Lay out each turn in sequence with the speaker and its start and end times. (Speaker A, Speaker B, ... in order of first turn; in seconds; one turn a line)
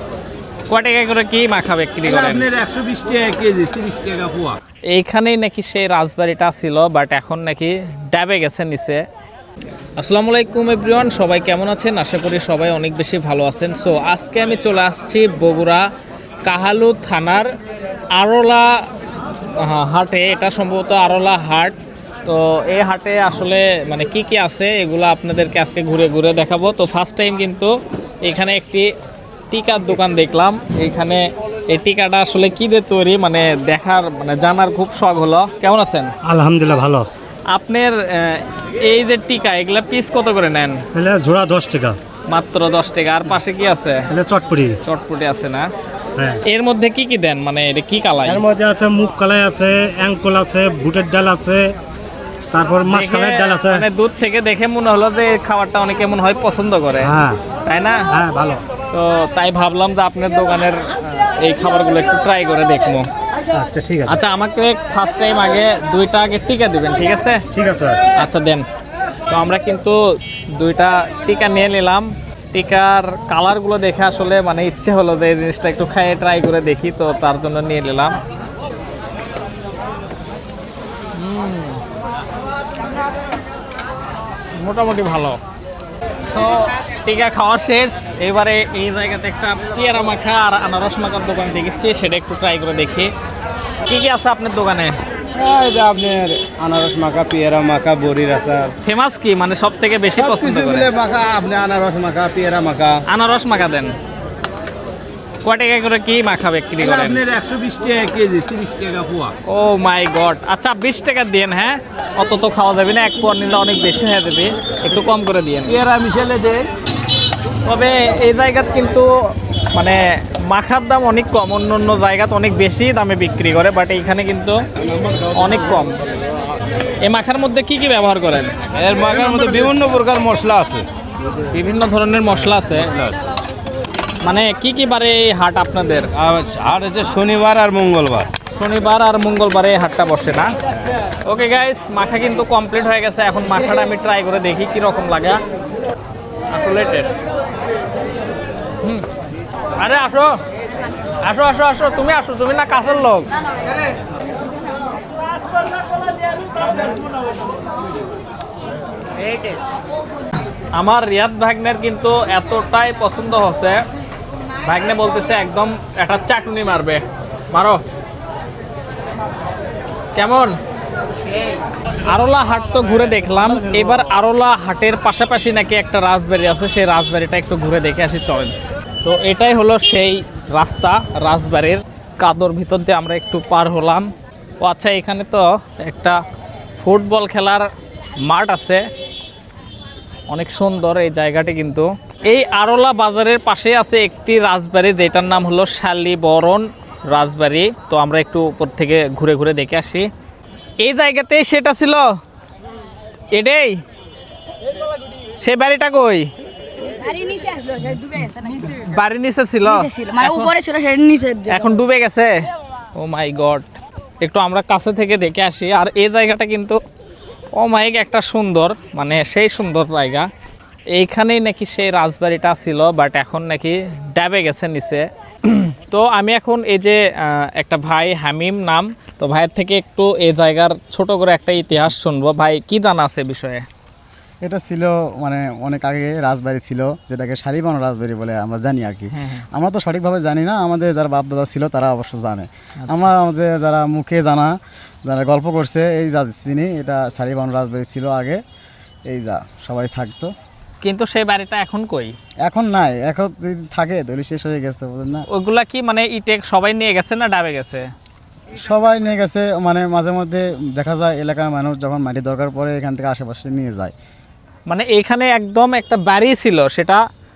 Speaker A: 0.7-2.5
Speaker B: 2.0-4.5
Speaker A: 4.9-9.0
Speaker A: 10.0-15.9
Speaker A: 16.4-17.5
Speaker A: 18.2-18.8
Speaker A: 19.6-27.7
Speaker A: 28.2-28.9
Speaker A: 29.5-36.1
Speaker C: 36.2-37.1
Speaker A: 37.5-40.8
Speaker C: 40.9-42.0
Speaker A: 42.3-44.1
Speaker C: 44.1-44.8
Speaker A: 44.8-45.7
Speaker C: 46.1-46.4
Speaker A: 46.4-48.4
Speaker C: 48.2-51.8
Speaker C: 52.5-53.8
Speaker A: 52.9-58.1
Speaker C: 57.0-57.4
Speaker C: 58.1-58.6
Speaker A: 58.9-63.1
Speaker C: 63.5-64.2
Speaker A: 64.0-67.4
Speaker C: 67.5-68.0
Speaker A: 68.2-68.7
Speaker A: 69.3-70.0
Speaker A: 70.6-78.2
Speaker A: 81.1-81.8
Speaker A: 84.6-85.4
Speaker A: 86.3-93.1
Speaker A: 93.9-95.0
Speaker B: 95.3-98.7
Speaker A: 98.8-100.9
Speaker B: 100.1-102.9
Speaker A: 103.1-103.9
Speaker A: 105.4-107.2
Speaker B: 106.8-109.3
Speaker A: 109.5-115.8
Speaker B: 115.7-116.7
Speaker A: 117.7-119.1
Speaker A: 119.7-124.5
Speaker A: 125.3-126.0
Speaker A: 127.0-128.5
Speaker B: 128.8-130.8
Speaker A: 131.5-132.9
Speaker B: 132.9-133.2
Speaker A: 134.2-136.1
Speaker B: 136.2-138.3
Speaker A: 138.5-140.5
Speaker A: 141.2-145.4
Speaker A: 146.5-147.1
Speaker A: 148.8-149.1
Speaker A: 149.8-150.4
Speaker A: 151.2-153.3
Speaker A: 160.7-163.8
Speaker A: 164.6-167.8
Speaker A: 170.1-170.6
Speaker A: 172.0-184.1
Speaker A: 184.6-186.2
Speaker A: 186.8-187.7
Speaker A: 188.2-188.8
Speaker A: 190.3-200.1
Speaker A: 200.8-202.1
Speaker A: 203.3-203.8
Speaker A: 205.4-206.3
Speaker D: 206.9-208.7
Speaker A: 208.6-210.6
Speaker D: 209.7-211.7
Speaker A: 211.4-212.3
Speaker A: 212.9-213.7
Speaker A: 214.2-216.8
Speaker A: 217.5-220.3
Speaker A: 220.9-233.6
Speaker E: 234.4-248.4
Speaker A: 239.1-239.4
Speaker A: 242.8-243.1
Speaker E: 249.1-250.3
Speaker A: 250.8-252.2
Speaker E: 252.4-255.2
Speaker A: 255.3-257.9
Speaker E: 258.5-263.9
Speaker A: 264.7-267.0